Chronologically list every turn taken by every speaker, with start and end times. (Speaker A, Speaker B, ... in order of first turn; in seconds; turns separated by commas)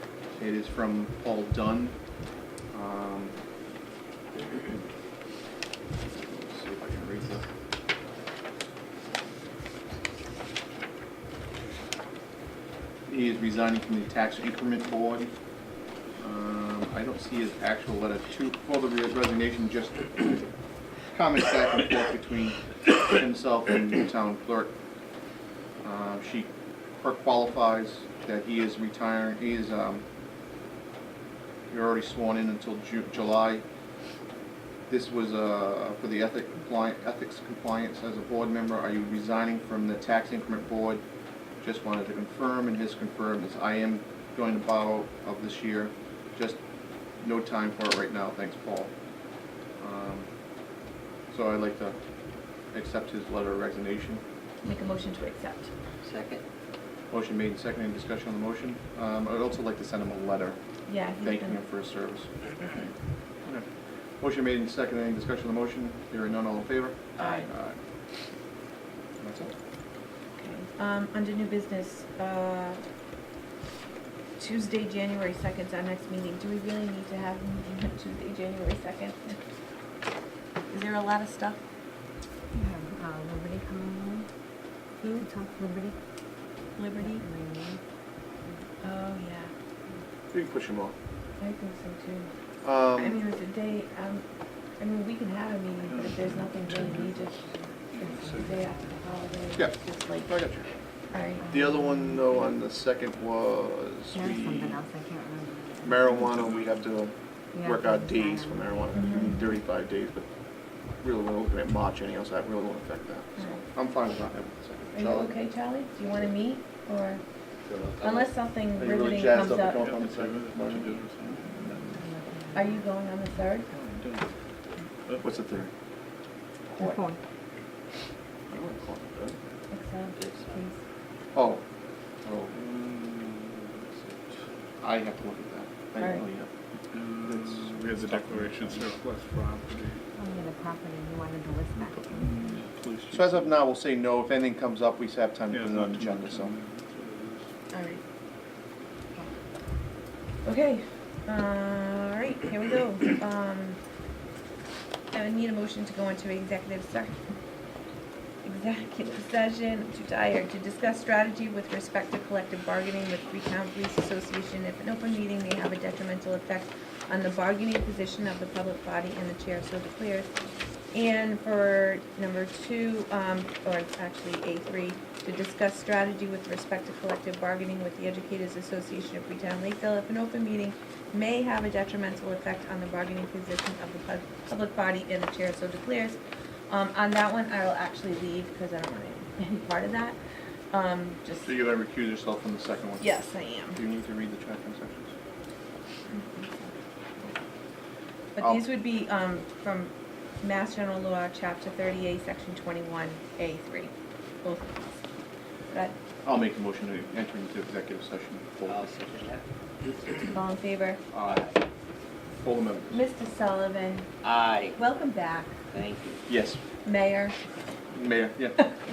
Speaker A: 0.3-2.0, Speaker A: 2.7-3.4, Speaker A: 4.3-4.9, Speaker A: 6.1-7.5, Speaker A: 13.1-15.3, Speaker A: 16.2-20.5, Speaker A: 21.1-24.7, Speaker A: 25.8-30.0, Speaker A: 31.7-33.6, Speaker A: 34.9-41.0, Speaker A: 41.6-46.6, Speaker A: 47.2-48.9, Speaker A: 49.8-50.3, Speaker A: 51.3-52.0, Speaker A: 52.7-54.2, Speaker B: 54.6-55.7, Speaker C: 56.0-56.4, Speaker A: 57.1-60.6, Speaker B: 60.9-61.6, Speaker A: 61.1-62.9, Speaker A: 63.5-67.8, Speaker B: 67.2-67.5, Speaker A: 69.2-69.5, Speaker B: 70.4-72.8, Speaker B: 74.4-79.4, Speaker B: 80.7-81.6, Speaker D: 82.5-84.3, Speaker D: 85.0-86.0, Speaker B: 86.8-87.2, Speaker D: 87.0-87.8, Speaker B: 88.8-89.5, Speaker A: 90.3-91.0, Speaker B: 91.4-92.3, Speaker A: 92.6-93.2, Speaker B: 92.9-94.2, Speaker B: 94.8-97.4, Speaker E: 95.9-97.3, Speaker D: 96.1-99.6, Speaker E: 97.9-98.7, Speaker B: 98.0-100.3, Speaker A: 99.6-100.7, Speaker B: 101.1-101.4, Speaker D: 101.4-102.5, Speaker A: 101.5-104.8, Speaker D: 104.1-106.1, Speaker A: 105.8-110.3, Speaker E: 106.1-106.8, Speaker D: 107.5-109.4, Speaker B: 108.9-109.4, Speaker A: 111.0-115.3, Speaker B: 113.4-113.7, Speaker B: 114.9-117.2, Speaker C: 117.7-118.2, Speaker B: 118.0-119.8, Speaker A: 118.8-121.0, Speaker E: 119.7-122.0, Speaker D: 121.9-122.8, Speaker B: 122.5-123.7, Speaker E: 123.6-124.3, Speaker A: 125.2-125.7, Speaker D: 126.8-127.2, Speaker A: 128.5-129.4, Speaker B: 129.7-130.8, Speaker C: 130.2-130.6, Speaker A: 131.3-131.6, Speaker A: 132.2-132.5, Speaker E: 132.5-134.2, Speaker A: 134.8-136.5, Speaker E: 136.9-140.0, Speaker A: 137.2-138.9, Speaker D: 140.2-142.7, Speaker E: 141.8-143.6, Speaker A: 143.1-146.5, Speaker E: 145.5-147.5, Speaker B: 147.7-148.0, Speaker B: 150.4-153.8, Speaker B: 155.1-157.2, Speaker B: 158.4-170.3, Speaker B: 170.9-186.2, Speaker B: 186.7-190.2, Speaker B: 190.7-191.6, Speaker A: 191.4-195.2, Speaker B: 193.0-193.8, Speaker B: 196.1-197.4, Speaker B: 198.4-203.9, Speaker A: 198.4-198.7, Speaker B: 204.4-205.0, Speaker A: 206.2-209.0, Speaker C: 208.7-210.4, Speaker B: 210.2-211.0, Speaker A: 211.1-211.5, Speaker C: 211.2-211.6, Speaker A: 212.4-213.0, Speaker B: 212.9-214.1, Speaker C: 214.2-214.8, Speaker B: 214.7-215.6, Speaker C: 215.7-216.2, Speaker A: 216.3-216.6, Speaker B: 216.8-217.4, Speaker A: 217.9-218.7